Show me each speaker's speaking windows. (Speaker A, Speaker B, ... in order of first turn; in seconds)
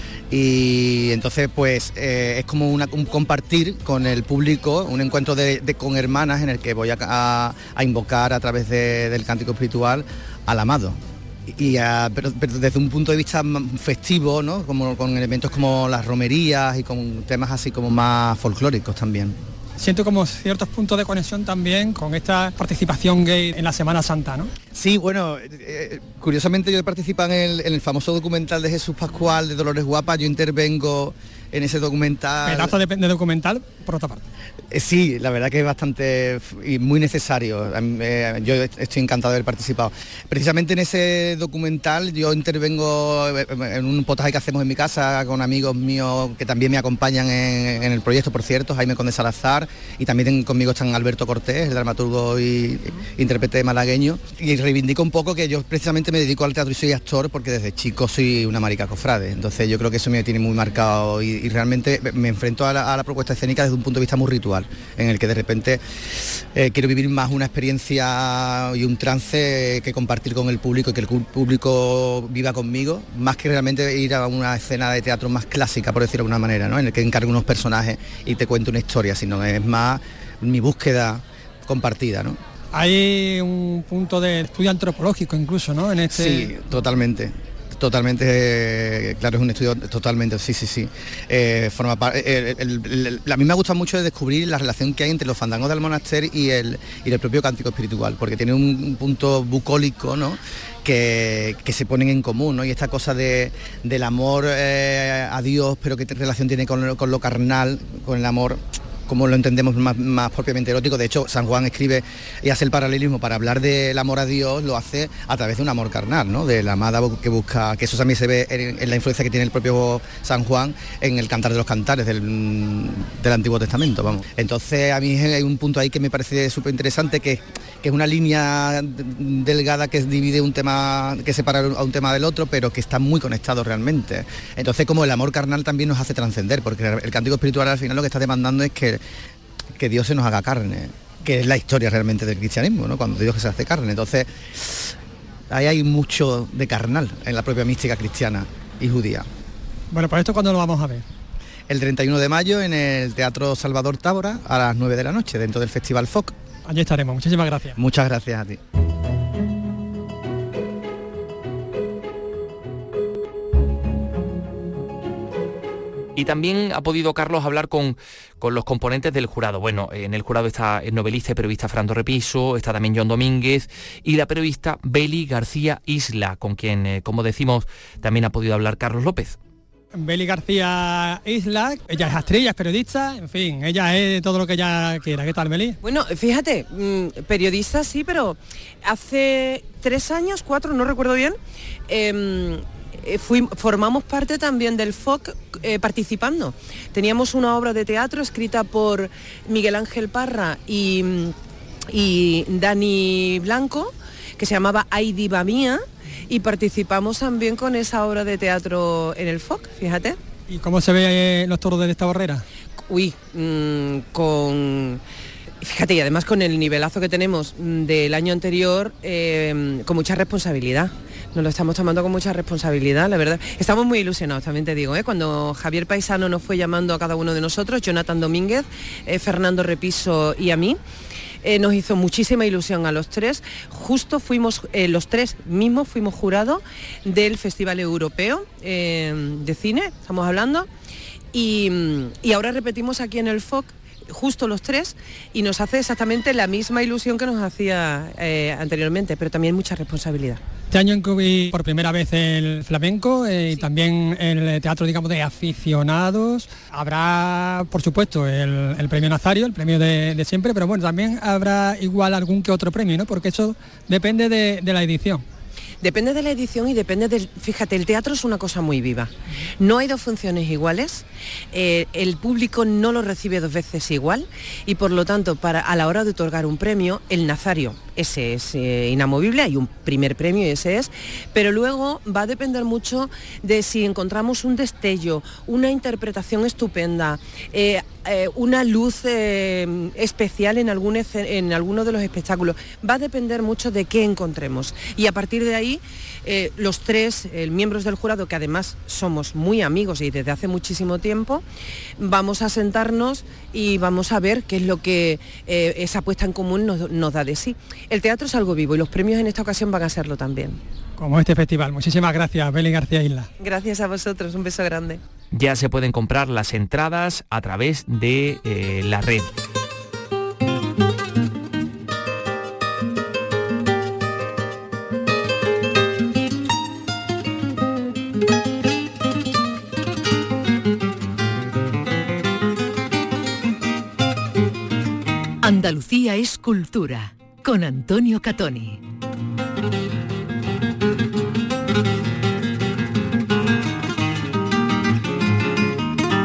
Speaker A: 0.3-19.4, 24.7-32.7, 34.7-65.8, 66.4-82.4, 86.1-139.0, 139.8-144.9, 145.5-149.2, 151.7-156.3, 157.8-158.6
Speaker B: 19.8-24.5, 32.5-34.2, 82.7-86.5, 149.9-151.0, 156.7-157.8, 179.9-185.8, 210.5-212.4, 250.7-265.2, 311.0-313.3
Speaker C: 166.1-179.4, 315.3-319.3
Speaker D: 185.8-191.4, 191.9-201.3, 201.9-210.2, 212.9-215.0, 215.6-230.8, 231.4-240.7, 241.3-250.4, 265.8-301.4, 302.0-310.6, 313.4-315.0
Speaker E: 335.4-338.8